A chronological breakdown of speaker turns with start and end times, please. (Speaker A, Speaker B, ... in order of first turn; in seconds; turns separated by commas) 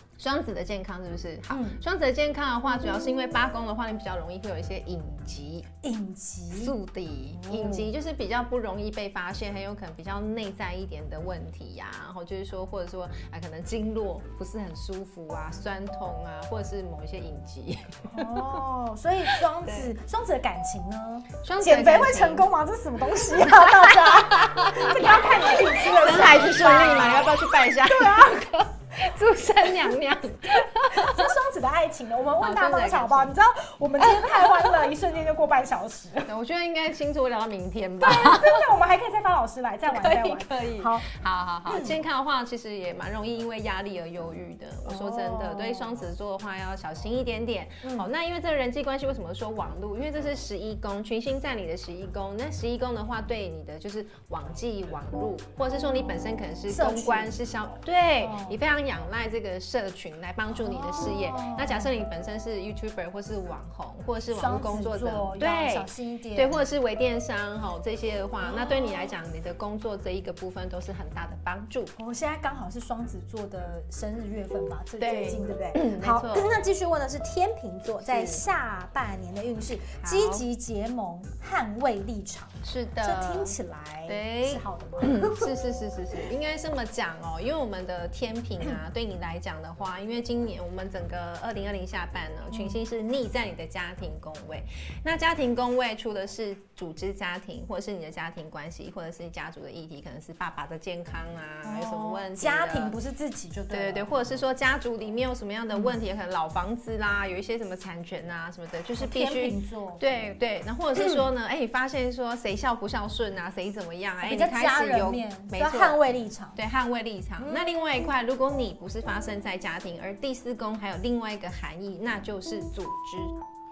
Speaker A: 0.2-5.7, Speaker B: 1.5-1.8, Speaker B: 5.8-6.7, Speaker A: 6.5-18.4, Speaker B: 7.3-7.9, Speaker B: 18.1-28.5, Speaker A: 19.6-19.9, Speaker A: 21.4-22.5, Speaker A: 23.3-31.3, Speaker B: 30.9-36.3, Speaker A: 32.4-33.3, Speaker A: 34.0-34.9, Speaker A: 36.3-38.6, Speaker B: 38.0-41.1, Speaker A: 39.9-71.9, Speaker B: 41.6-42.0, Speaker B: 44.9-45.9, Speaker B: 47.8-48.1, Speaker B: 56.7-57.4, Speaker B: 58.2-58.6, Speaker B: 60.5-61.9, Speaker B: 64.3-66.6, Speaker B: 68.4-69.0, Speaker B: 72.0-85.5, Speaker A: 75.0-76.5, Speaker A: 78.0-78.4, Speaker A: 80.0-80.5, Speaker A: 82.6-103.0, Speaker B: 92.5-92.8, Speaker B: 101.6-104.1, Speaker A: 103.7-116.0, Speaker B: 109.0-110.0, Speaker B: 111.0-111.2, Speaker B: 114.2-116.6, Speaker A: 116.5-123.4, Speaker B: 117.4-117.7